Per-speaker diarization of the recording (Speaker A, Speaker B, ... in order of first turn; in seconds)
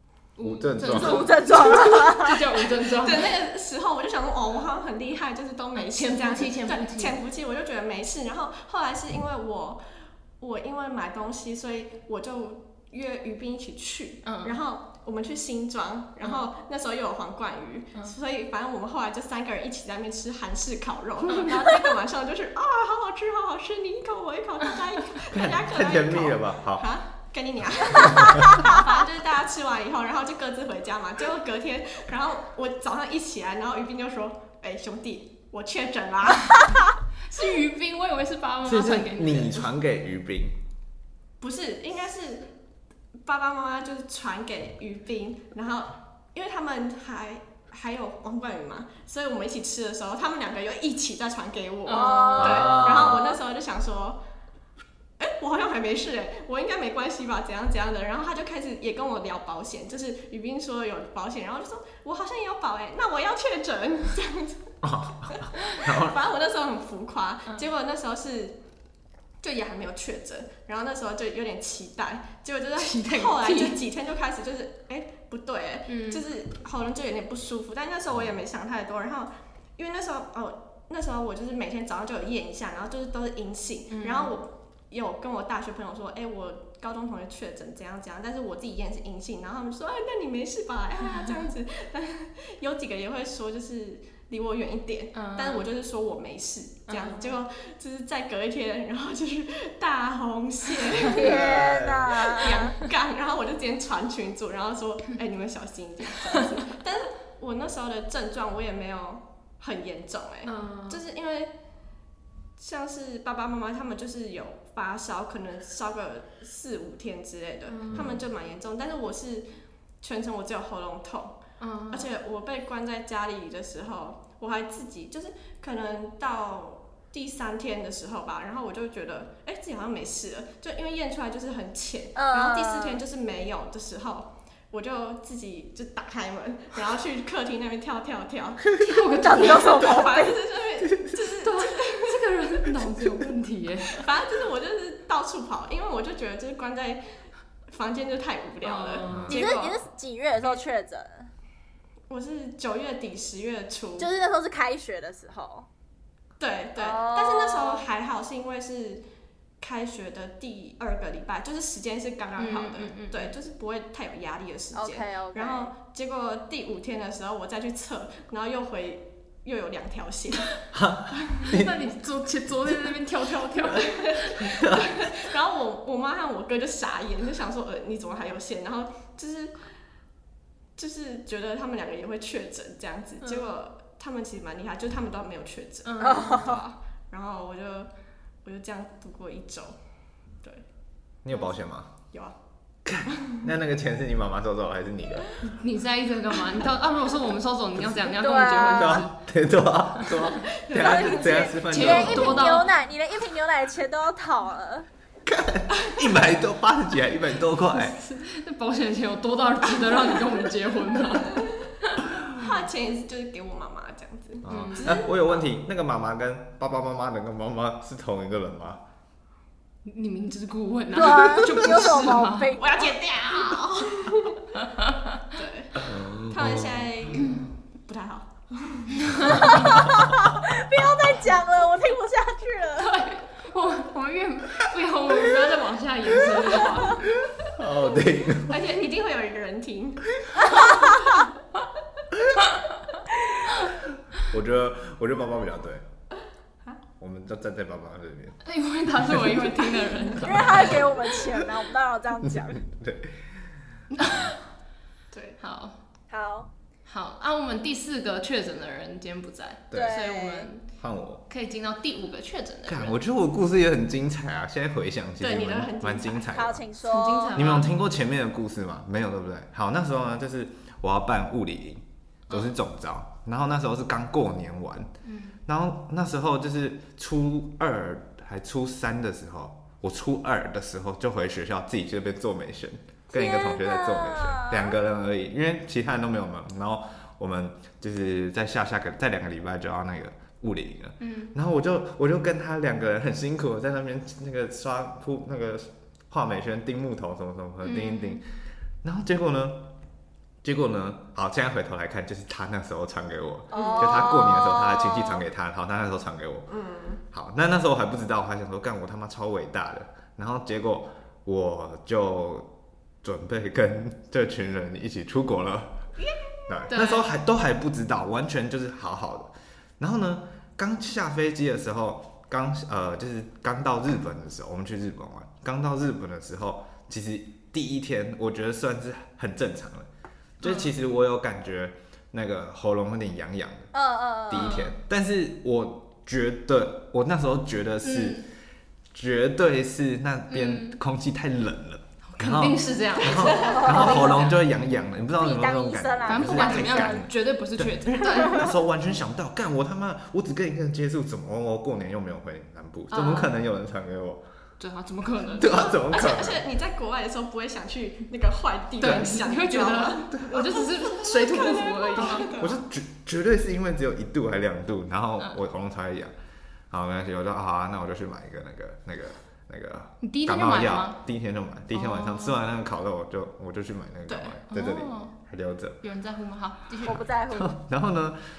Speaker A: 0.3-3.4, 5.8-7.2, 14.2-14.6, 21.3-21.7, 37.3-39.7, 51.8-52.9, 72.8-73.8, 75.9-76.2, 83.9-84.4, 95.1-95.7, 96.9-97.4, 102.4-102.9, 110.5-111.0, 117.7-118.2, 121.6-122.1, 138.8-140.0, 141.4-144.1, 148.6-149.7, 162.4-163.3, 171.4-174.5, 183.2-183.5, 185.8-186.5, 195.4-199.2, 200.0-202.7, 207.7-212.0, 214.5-215.0, 219.8-223.6, 224.5-225.3, 229.1-229.6, 232.8-237.3, 248.4-251.0, 253.9-254.3, 255.4-255.8, 256.9-260.6, 261.3-262.9, 266.8-267.8, 272.3-272.5, 275.0-275.4, 291.0-291.3, 297.6-298.2, 316.7-317.1, 330.4-330.7, 334.3-334.7, 337.8-338.2, 340.3-340.8, 342.1-344.4, 346.1-348.5, 352.9-353.3, 354.6-355.8, 358.8-362.4, 370.0-371.0, 371.7-372.4, 374.5-375.1, 375.8-377.0
Speaker B: 0.4-1.5, 25.3-26.9, 27.9-28.7, 38.6-40.6, 52.4-53.2, 64.8-66.2, 101.0-102.3, 117.9-118.2, 149.1-149.3, 170.7-171.9, 174.4-175.0, 191.2-191.9, 192.8-195.4, 198.8-202.5, 205.2-207.9, 214.4-218.8, 225.8-227.4, 237.4-238.6, 244.2-245.8, 247.0-248.4, 252.2-253.2, 254.0-254.3, 260.8-261.2, 262.7-266.6, 267.3-274.9, 275.5-298.2, 298.8-299.7, 300.4-306.5, 307.1-312.5, 313.0-315.8, 316.5-329.9, 330.4-333.7, 334.3-338.2, 338.9-354.2, 355.4-356.5, 358.8-359.1, 362.0-366.1, 366.7-375.8, 377.3-378.2
Speaker C: 0.8-2.5, 51.9-53.4, 101.1-102.7, 132.2-133.0, 139.1-140.4, 149.3-151.3, 154.0-155.7, 156.8-157.9, 164.7-165.7, 186.0-186.6, 198.2-199.0, 200.7-204.9, 220.9-222.9, 229.3-233.1, 250.2-252.6, 256.1-256.5, 259.7-260.5, 266.3-267.3, 283.1-284.8, 303.5-305.2, 333.7-334.6, 343.3-344.1, 345.2-346.9, 376.8-377.6
Speaker D: 1.6-1.9, 2.9-9.8, 10.4-36.7, 41.4-42.5, 43.2-54.2, 55.2-64.7, 65.3-68.6, 69.4-101.6, 102.3-111.5, 112.6-119.5, 120.0-142.2, 143.9-147.0, 147.7-149.7, 152.1-154.1, 156.4-159.0, 159.6-170.5, 173.6-179.6, 180.8-187.9, 188.4-189.8, 193.1-193.4, 200.5-201.5, 211.1-215.5, 222.6-224.4, 225.3-229.6, 238.4-241.2, 255.1-255.4, 265.2-266.3, 303.5-304.0, 306.5-307.0, 316.2-316.6, 343.1-344.1, 355.6-362.6, 374.1-374.4